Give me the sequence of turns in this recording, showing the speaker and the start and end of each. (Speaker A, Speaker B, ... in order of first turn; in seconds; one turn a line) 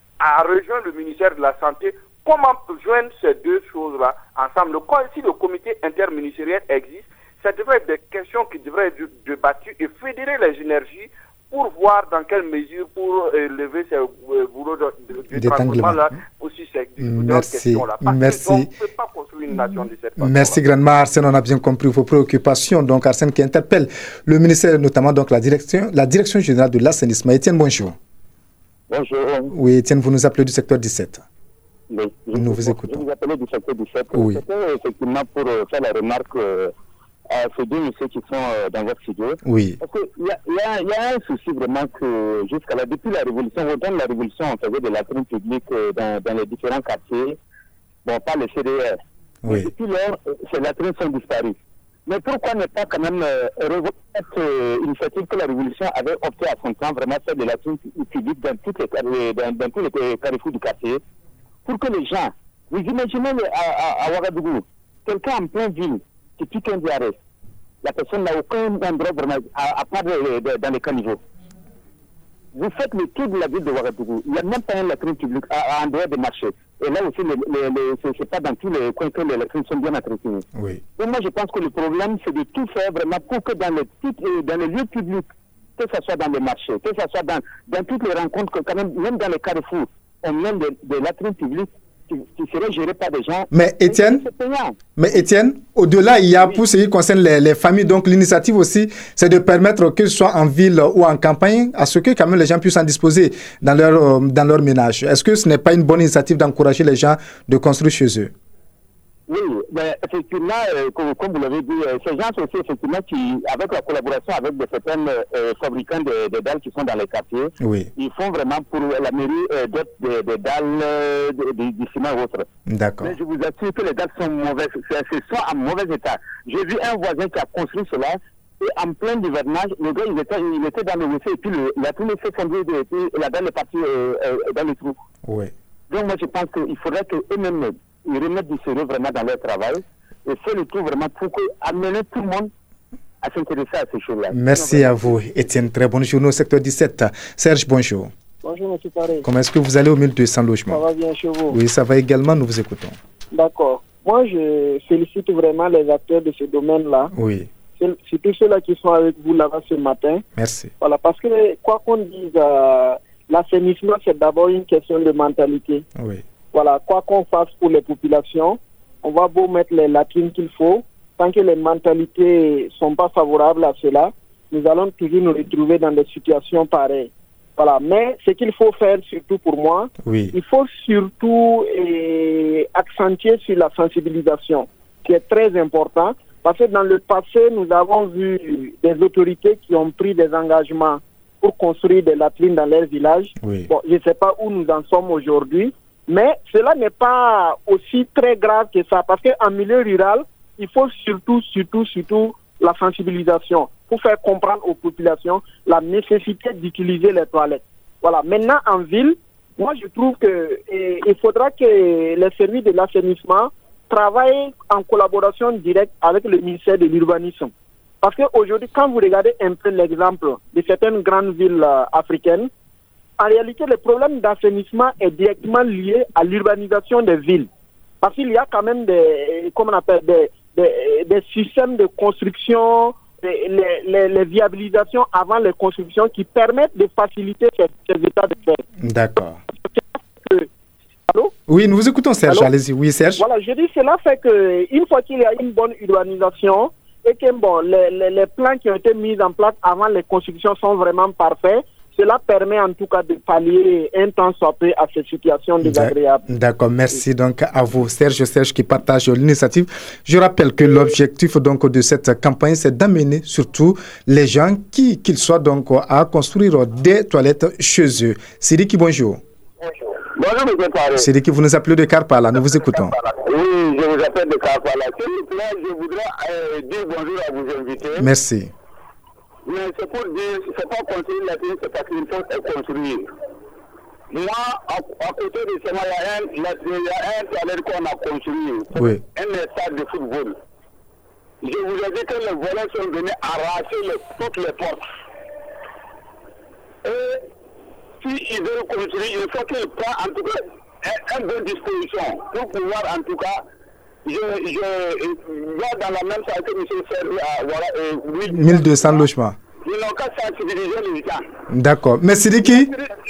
Speaker A: 0.2-20.6
Speaker B: 15.3-16.1
Speaker B: 17.0-18.7
Speaker B: 19.5-28.0
Speaker C: 28.9-29.5
Speaker B: 29.5-31.2
Speaker C: 31.9-36.7
Speaker B: 32.3-33.0
Speaker B: 34.1-34.4
Speaker C: 37.3-47.4
Speaker B: 39.4-39.8
Speaker C: 48.0-51.5
Speaker B: 49.4-49.7
Speaker C: 52.1-61.0
Speaker C: 61.7-67.2
Speaker C: 67.8-71.2
Speaker C: 72.5-80.5
Speaker B: 80.5-80.8
Speaker C: 81.0-94.8
Speaker B: 93.5-94.3
Speaker B: 95.0-108.3
Speaker C: 109.3-122.5
Speaker B: 117.6-117.9
Speaker B: 122.7-123.2
Speaker C: 123.0-135.0
Speaker B: 135.2-135.5
Speaker C: 135.9-142.5
Speaker C: 143.2-144.7
Speaker B: 144.3-148.1
Speaker D: 144.6-144.9
Speaker D: 148.4-149.3
Speaker B: 149.3-150.8
Speaker D: 150.7-151.6
Speaker B: 151.5-153.0
Speaker D: 153.3-157.1
Speaker B: 157.1-157.5
Speaker D: 157.8-160.2
Speaker B: 160.4-160.7
Speaker D: 160.8-165.8
Speaker B: 165.9-166.2
Speaker D: 166.5-222.5
Speaker B: 180.0-180.3
Speaker B: 193.4-193.7
Speaker D: 223.2-227.5
Speaker D: 228.0-238.6
Speaker B: 238.8-239.4
Speaker D: 239.7-240.5
Speaker B: 241.5-243.2
Speaker D: 243.2-256.3
Speaker B: 255.6-269.2
Speaker E: 270.0-271.1
Speaker B: 271.0-273.0
Speaker E: 272.8-278.1
Speaker B: 278.0-278.5
Speaker E: 279.4-283.1
Speaker E: 284.1-290.4
Speaker B: 288.7-289.0
Speaker E: 291.4-294.8
Speaker E: 296.9-297.2
Speaker E: 298.0-303.4
Speaker E: 304.1-308.9
Speaker B: 308.3-309.4
Speaker E: 309.6-311.3
Speaker B: 311.5-312.7